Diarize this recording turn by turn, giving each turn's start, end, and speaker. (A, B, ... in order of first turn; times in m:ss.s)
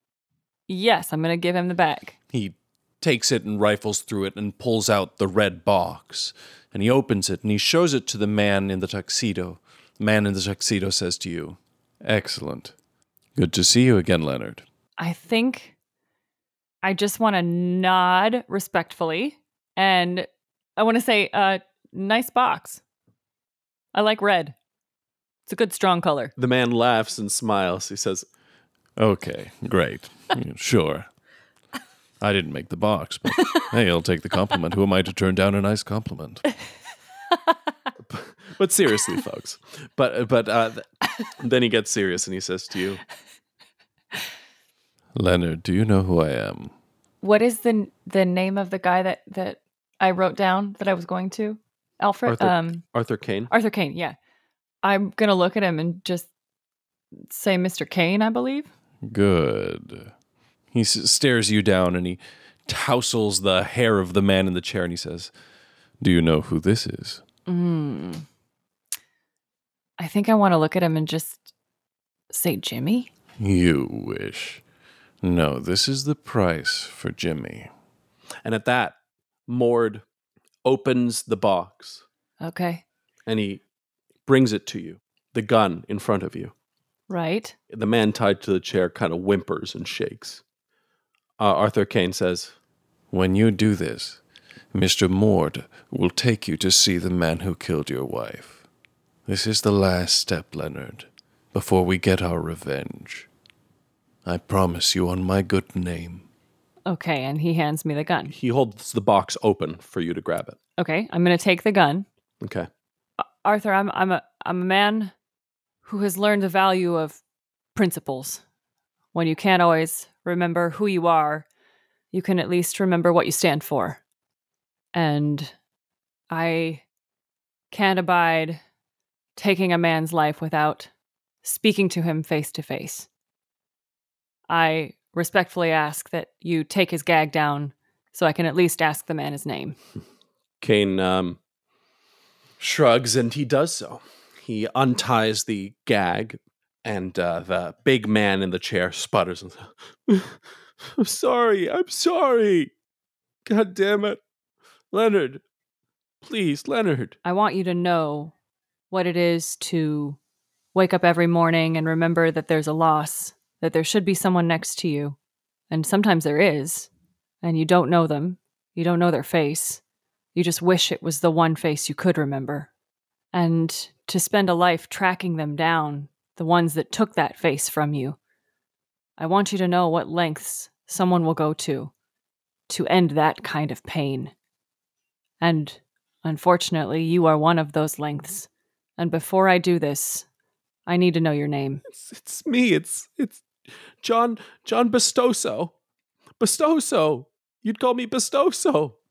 0:00.7-0:02.1 A
0:02.3-0:12.7 B
0:13.4-0:14.6 B
0:15.0-0:15.7 A
0:16.8-0:22.8 A
0:23.9-0:24.5 A
0:25.5-0:26.3 A
0:26.4-0:28.2 C
0:29.0-0:31.1 B
0:32.2-0:36.4 B
0:38.1-0:40.9 C
0:41.4-0:43.0 C
0:45.1-0:46.7 B
0:47.2-0:52.8 A
0:52.2-0:53.5 C
0:53.5-0:54.2 A
0:54.8-0:56.3 A
0:57.3-0:58.7 A
0:59.0-1:00.1 B
1:00.7-1:05.3 B
1:06.0-1:07.2 B
1:07.5-1:08.2 A
1:10.0-1:11.5 A
1:12.3-1:13.1 A
1:13.4-1:14.6 B
1:15.2-1:17.7 B
1:18.4-1:19.0 C
1:19.5-1:20.0 C
1:20.6-1:22.0 C
1:22.4-1:22.8 A
1:23.2-1:23.6 C
1:24.2-1:26.5 C
1:27.1-1:27.5 A
1:27.7-1:30.4 C
1:31.4-1:32.5 C
1:33.1-1:34.2 B
1:34.7-1:38.6 B
1:39.3-1:43.3 B
1:44.2-1:46.2 B
1:46.9-1:48.3 A
1:48.3-1:50.6 C
1:50.8-1:52.0 A
1:52.4-1:52.7 C
1:53.2-1:55.1 A
1:55.8-1:57.2 A
1:57.7-1:58.4 A
1:59.1-2:01.4 A
2:02.1-2:04.0 A
2:04.9-2:05.5 A
2:06.3-2:06.8 A
2:07.7-2:08.6 A
2:09.4-2:10.9 A
2:11.4-2:13.1 A
2:14.5-2:19.8 A
2:20.6-2:21.4 C
2:22.6-2:32.7 C
2:33.4-2:34.2 C
2:34.9-2:35.4 C
2:36.2-2:37.2 C
2:37.2-2:38.3 A
2:38.9-2:40.2 A
2:40.7-2:45.2 A
2:45.7-2:46.9 A
2:47.4-2:49.8 A
2:50.3-2:52.7 A
2:53.3-2:58.2 A
2:59.2-3:01.9 A
3:02.7-3:04.3 A
3:05.4-3:10.2 A
3:10.9-3:11.8 A
3:11.9-3:13.4 C
3:14.0-3:15.7 C
3:16.4-3:19.0 C